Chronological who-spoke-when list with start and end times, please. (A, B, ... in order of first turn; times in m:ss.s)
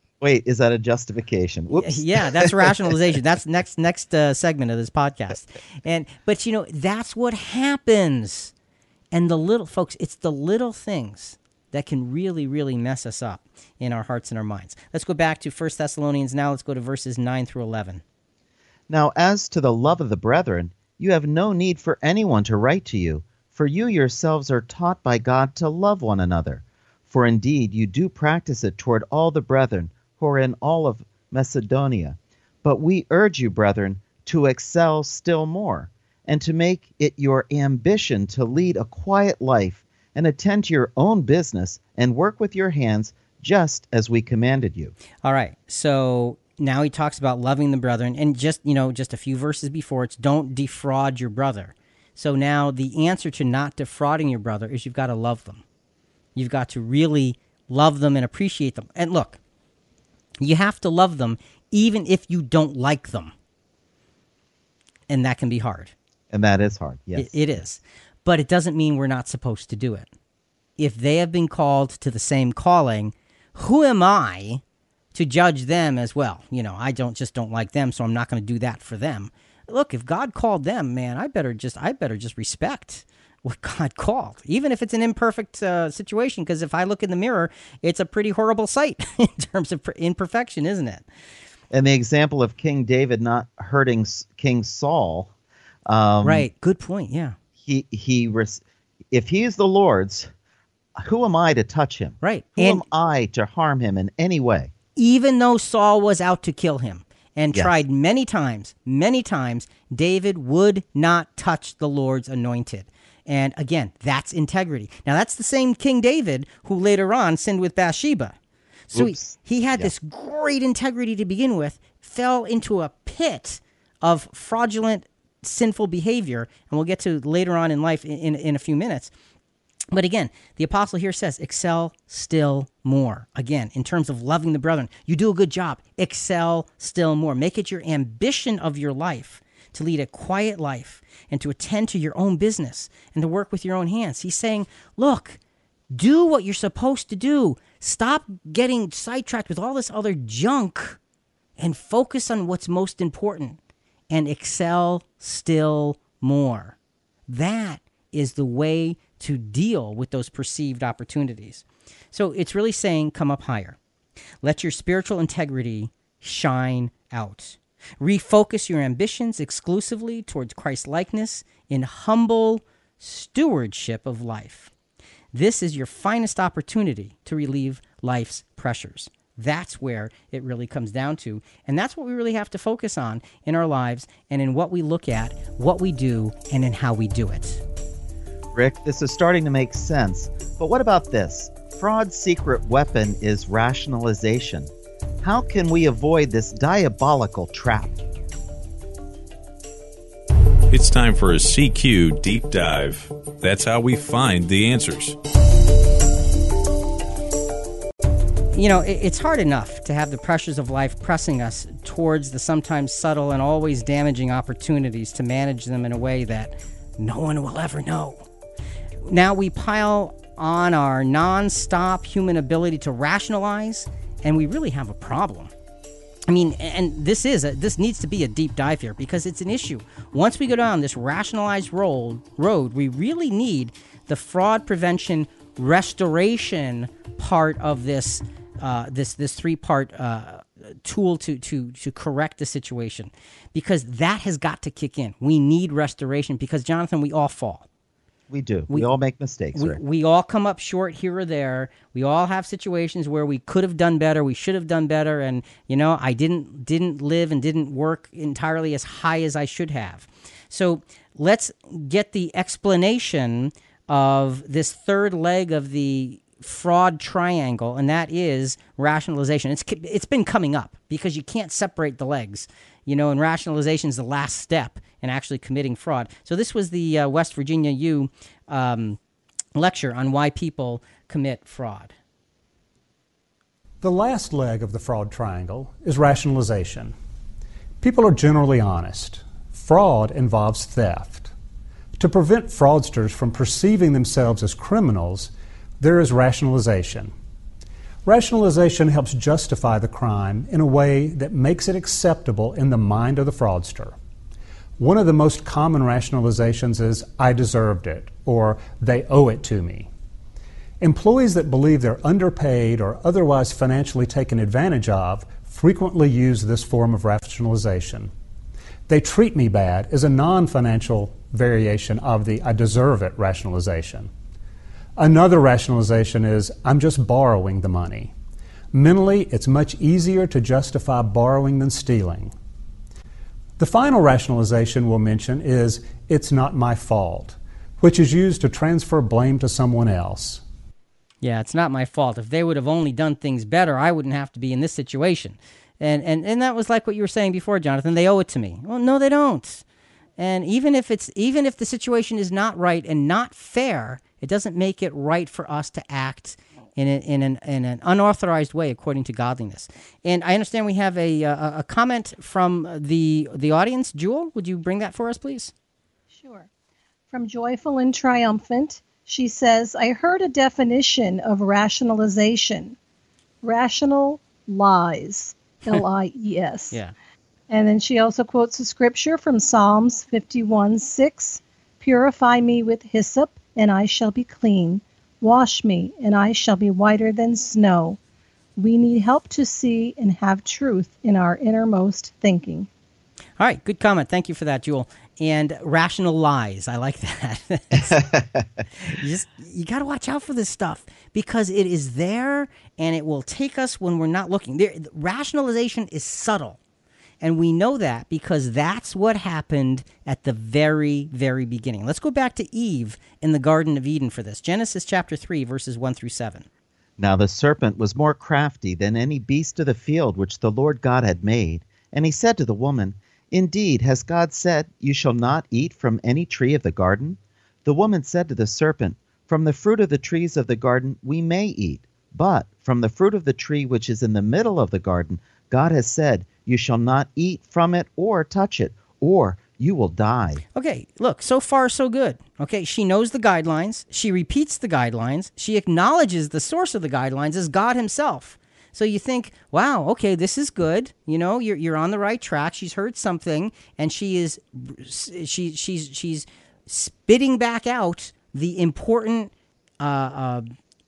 0:00.2-0:02.8 A
0:01.8-0:08.5 B
0:09.1-0:18.0 B
0:18.9-0:44.9 A
0:45.2-0:55.6 B
0:56.4-0:59.4 B
1:00.4-1:03.3 B
1:05.1-1:05.9 B
1:06.3-1:07.5 A
1:07.2-1:10.1 B
1:10.8-1:14.6 B
1:15.1-1:31.0 B
1:31.7-1:35.3 A
1:35.9-1:36.5 A
1:36.2-1:37.4 B
1:37.6-1:40.3 A
1:41.0-1:44.7 A
1:42.2-1:42.8 B
1:45.0-1:58.4 B
1:58.9-2:09.1 B
1:58.9-1:59.9 A
2:09.9-2:25.4 B
2:25.9-2:31.0 B
2:31.6-2:33.6 B
2:34.1-2:36.8 B
2:37.3-2:43.8 B
2:44.4-2:54.7 B
2:55.3-3:07.6 B
3:08.5-3:14.7 A
3:15.2-3:18.0 A
3:20.7-3:25.2 C
3:28.5-3:38.2 B
3:39.0-3:45.5 B
3:46.3-4:07.7 B
4:08.3-4:09.8 A
4:09.6-4:39.0 B
4:39.6-4:42.0 B
4:43.8-4:46.9 D
4:47.8-4:51.3 D
4:52.0-4:57.1 D
4:58.0-5:04.0 D
5:04.8-5:09.9 D
5:10.8-5:18.1 D
5:18.9-5:24.1 D
5:25.0-5:28.1 D
5:28.7-5:32.3 D
5:33.6-5:40.4 D
5:41.2-5:49.6 B
5:50.2-6:05.5 B
6:06.1-6:06.5 E
6:07.1-6:12.8 E
6:13.4-6:16.8 E
6:17.5-6:28.0 E
6:28.6-6:32.7 E
6:33.4-6:38.1 B
6:38.0-6:38.2 A
6:38.8-6:46.6 B
6:47.2-6:56.5 B
6:57.0-7:20.4 A
7:20.5-7:40.5 B